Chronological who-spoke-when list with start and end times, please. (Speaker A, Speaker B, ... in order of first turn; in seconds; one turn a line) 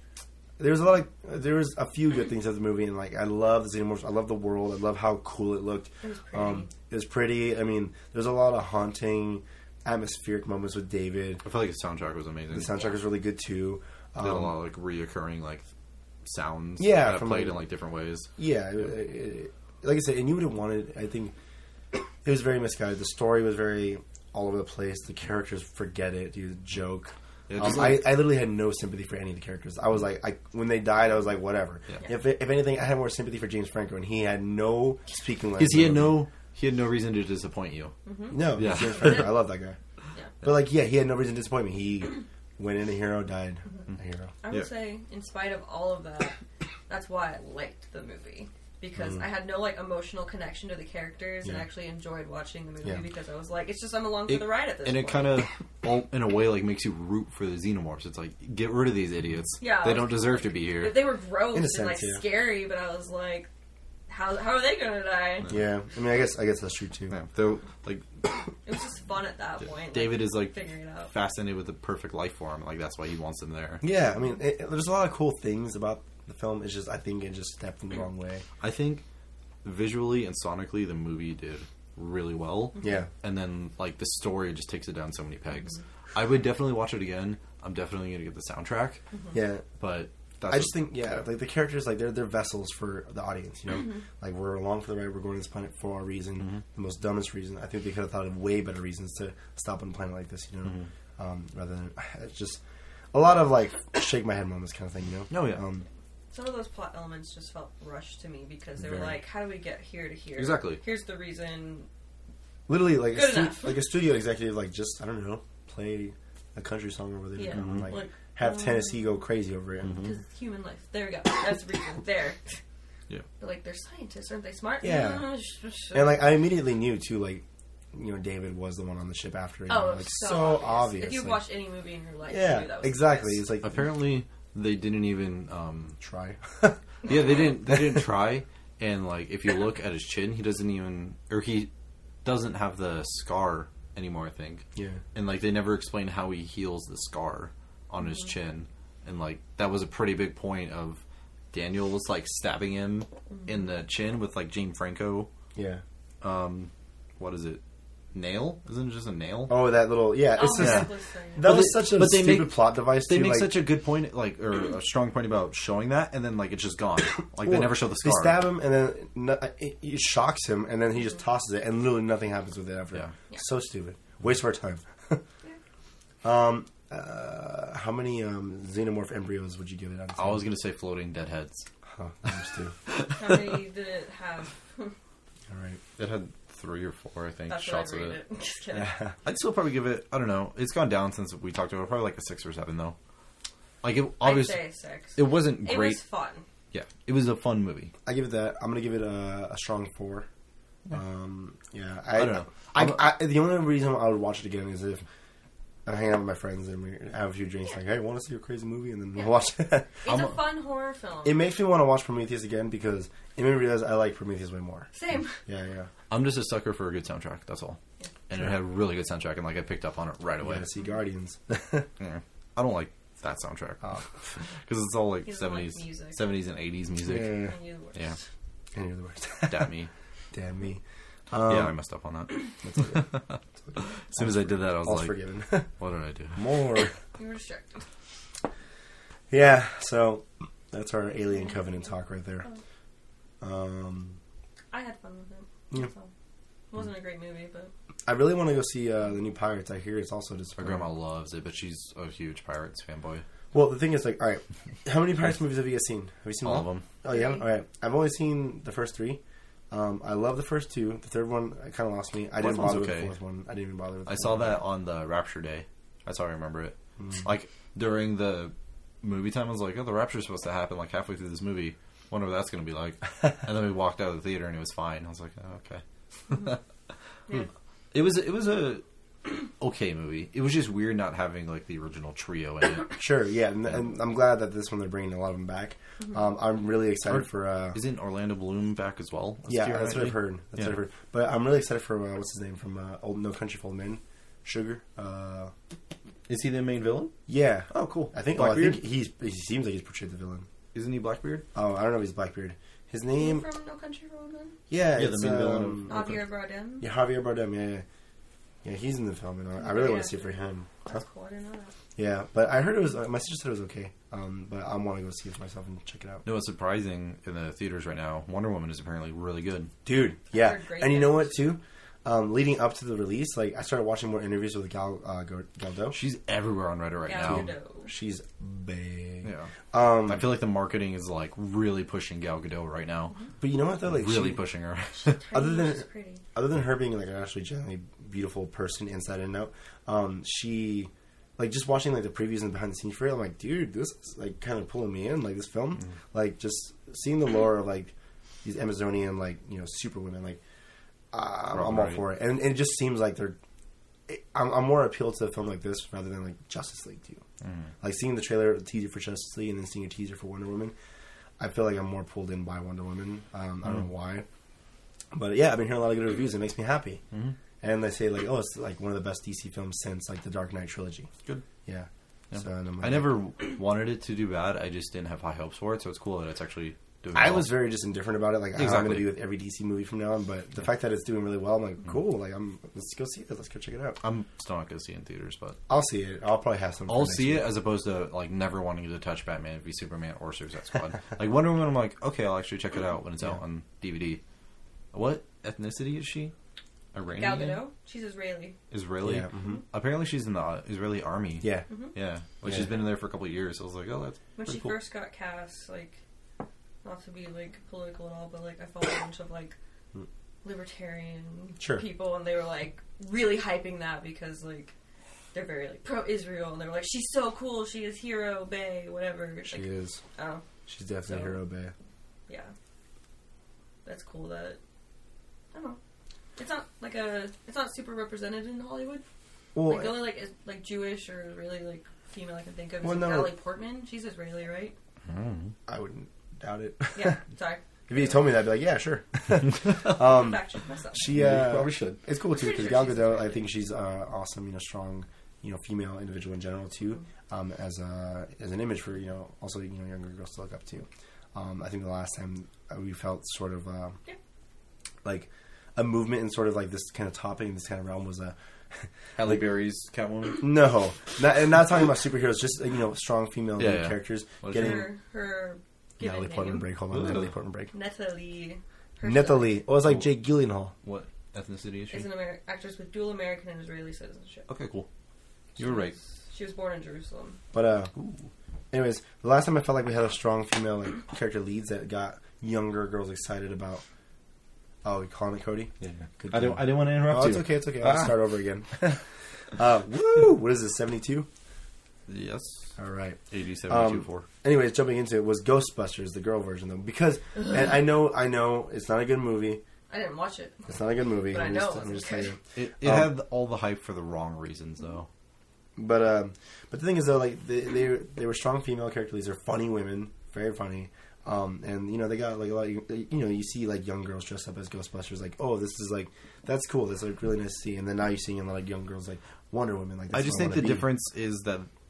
Speaker A: 0.6-11.4
Speaker B: 6.0-6.7
Speaker C: 11.4-12.7
Speaker A: 12.5-14.5
Speaker C: 14.2-15.6
Speaker C: 16.2-18.3
Speaker A: 16.8-17.6
Speaker A: 18.4-21.3
Speaker A: 21.9-36.2
Speaker C: 27.5-28.1
Speaker C: 35.6-37.9
Speaker B: 38.0-39.3
Speaker A: 38.3-39.8
Speaker C: 38.5-39.4
Speaker A: 40.4-44.3
Speaker B: 44.4-46.4
Speaker B: 46.9-55.4
Speaker A: 49.0-49.2
Speaker C: 54.3-61.0
Speaker B: 59.6-63.5
Speaker A: 61.5-62.2
Speaker B: 64.1-65.5
Speaker A: 65.5-67.1
Speaker C: 67.1-68.3
Speaker B: 68.6-71.1
Speaker C: 69.8-73.8
Speaker A: 73.8-78.4
Speaker C: 78.6-79.0
Speaker C: 79.6-89.0
Speaker A: 82.8-83.1
Speaker A: 89.3-89.7
Speaker C: 89.8-91.2
Speaker A: 90.5-102.6
Speaker C: 100.6-100.9
Speaker A: 103.1-105.8
Speaker C: 105.3-105.6
Speaker B: 106.3-111.9
Speaker A: 108.8-109.2
Speaker C: 110.3-110.8
Speaker A: 112.7-120.0
Speaker B: 113.1-113.8
Speaker B: 117.3-119.2
Speaker C: 117.5-117.9
Speaker C: 119.8-120.1
Speaker B: 120.0-122.6
Speaker B: 123.4-126.3
Speaker A: 124.8-125.3
Speaker A: 125.9-131.4
Speaker B: 129.7-133.4
Speaker A: 132.3-133.7
Speaker C: 133.6-136.0
Speaker A: 136.0-138.0
Speaker C: 137.0-141.7
Speaker C: 142.2-151.0
Speaker A: 144.7-145.0
Speaker C: 151.5-155.3
Speaker A: 155.5-155.8
Speaker C: 156.2-157.6
Speaker C: 158.1-159.6
Speaker A: 159.5-163.6
Speaker B: 160.3-161.5
Speaker C: 160.5-160.9
Speaker C: 161.4-168.4
Speaker A: 167.4-175.2
Speaker A: 176.2-180.4
Speaker C: 180.2-181.7
Speaker A: 181.9-182.7
Speaker C: 182.9-183.6
Speaker B: 183.1-184.9
Speaker A: 185.5-185.8
Speaker C: 186.0-188.2
Speaker B: 187.5-189.0
Speaker A: 188.7-189.1
Speaker C: 189.2-192.9
Speaker C: 193.8-194.6
Speaker B: 194.2-196.4
Speaker C: 195.1-196.0
Speaker C: 196.7-197.9
Speaker A: 198.0-200.3
Speaker A: 200.9-205.0
Speaker C: 202.1-203.0
Speaker A: 205.8-210.1
Speaker B: 210.0-211.4
Speaker A: 211.2-214.9
Speaker B: 214.9-215.4
Speaker A: 215.4-215.9
Speaker C: 216.1-220.7
Speaker A: 220.4-221.9
Speaker C: 222.0-228.2
Speaker B: 225.2-226.3
Speaker A: 227.0-227.5
Speaker B: 227.4-228.2
Speaker A: 228.7-229.7
Speaker C: 229.4-229.9
Speaker A: 230.3-231.7
Speaker C: 231.4-233.4
Speaker A: 232.6-235.7
Speaker C: 234.0-235.2
Speaker C: 235.8-236.4
Speaker A: 236.3-236.9
Speaker B: 237.2-237.8
Speaker A: 239.3-242.5
Speaker A: 243.4-244.2
Speaker B: 244.7-246.1
Speaker B: 246.7-247.7
Speaker A: 248.1-250.9
Speaker C: 250.6-253.2
Speaker A: 253.5-264.6
Speaker C: 256.4-256.8
Speaker B: 257.1-257.4
Speaker C: 262.4-263.1
Speaker C: 264.1-276.6
Speaker C: 277.9-282.9
Speaker A: 282.9-287.8
Speaker C: 287.1-290.8
Speaker A: 289.5-295.5
Speaker C: 296.3-297.1
Speaker A: 297.3-300.5
Speaker C: 297.7-298.8
Speaker C: 300.7-301.4
Speaker A: 301.5-303.4
Speaker B: 303.2-304.6
Speaker A: 304.7-306.1
Speaker C: 304.9-306.2
Speaker B: 305.9-306.9
Speaker A: 306.8-307.8
Speaker A: 308.6-311.0
Speaker B: 309.6-310.2
Speaker B: 310.8-311.7
Speaker A: 311.9-316.2
Speaker C: 316.2-319.7
Speaker A: 319.8-326.0
Speaker B: 320.3-321.4
Speaker C: 325.9-327.5
Speaker B: 327.0-327.9
Speaker A: 327.2-330.3
Speaker C: 329.2-333.1
Speaker A: 333.4-334.4
Speaker C: 333.8-335.2
Speaker B: 335.0-336.2
Speaker A: 335.3-347.9
Speaker A: 348.4-350.4
Speaker A: 351.1-353.4
Speaker C: 351.5-352.0
Speaker A: 354.1-357.2
Speaker C: 357.4-357.7
Speaker A: 357.8-360.7
Speaker A: 361.4-364.2
Speaker A: 365.1-367.0
Speaker A: 367.6-371.1
Speaker A: 371.6-373.2
Speaker C: 372.3-377.6
Speaker A: 377.1-384.0
Speaker C: 378.6-379.1
Speaker C: 384.0-385.6
Speaker A: 385.7-387.5
Speaker C: 386.9-394.2
Speaker C: 394.9-396.3
Speaker C: 396.9-397.6
Speaker B: 397.1-398.6
Speaker C: 398.7-404.8
Speaker A: 399.0-399.6
Speaker A: 401.4-401.7
Speaker B: 401.7-401.9
Speaker A: 402.4-402.7
Speaker B: 404.4-406.0
Speaker B: 406.8-409.6
Speaker B: 410.4-414.7
Speaker A: 411.6-411.8
Speaker B: 415.3-420.4
Speaker A: 419.5-420.0
Speaker A: 420.7-421.7
Speaker B: 421.0-421.4
Speaker B: 422.3-422.5
Speaker B: 423.9-424.6
Speaker B: 425.5-425.8
Speaker B: 426.4-429.0
Speaker A: 429.5-430.1
Speaker B: 429.6-434.7
Speaker A: 432.8-433.3
Speaker C: 435.1-435.5
Speaker A: 435.7-437.2
Speaker B: 436.9-437.6
Speaker A: 437.9-440.4
Speaker B: 440.0-441.2
Speaker A: 440.9-454.0
Speaker C: 441.1-442.0
Speaker B: 442.2-443.5
Speaker A: 455.0-459.3
Speaker C: 459.1-460.5
Speaker A: 460.4-464.9
Speaker C: 463.6-464.9
Speaker B: 464.5-466.7
Speaker A: 466.0-467.7
Speaker C: 466.9-467.3
Speaker B: 467.7-469.6
Speaker A: 469.0-470.7
Speaker C: 470.8-472.1
Speaker B: 471.9-474.5
Speaker C: 474.5-474.9
Speaker C: 475.6-475.9
Speaker B: 475.6-477.4
Speaker A: 477.5-477.9
Speaker C: 477.9-478.3
Speaker A: 478.7-483.8
Speaker A: 484.8-491.3
Speaker C: 485.8-488.1
Speaker C: 492.1-492.7
Speaker A: 492.8-499.6
Speaker C: 493.3-494.3
Speaker B: 499.9-502.3
Speaker A: 500.7-503.1
Speaker C: 502.5-505.1
Speaker A: 505.8-520.9
Speaker C: 520.1-521.7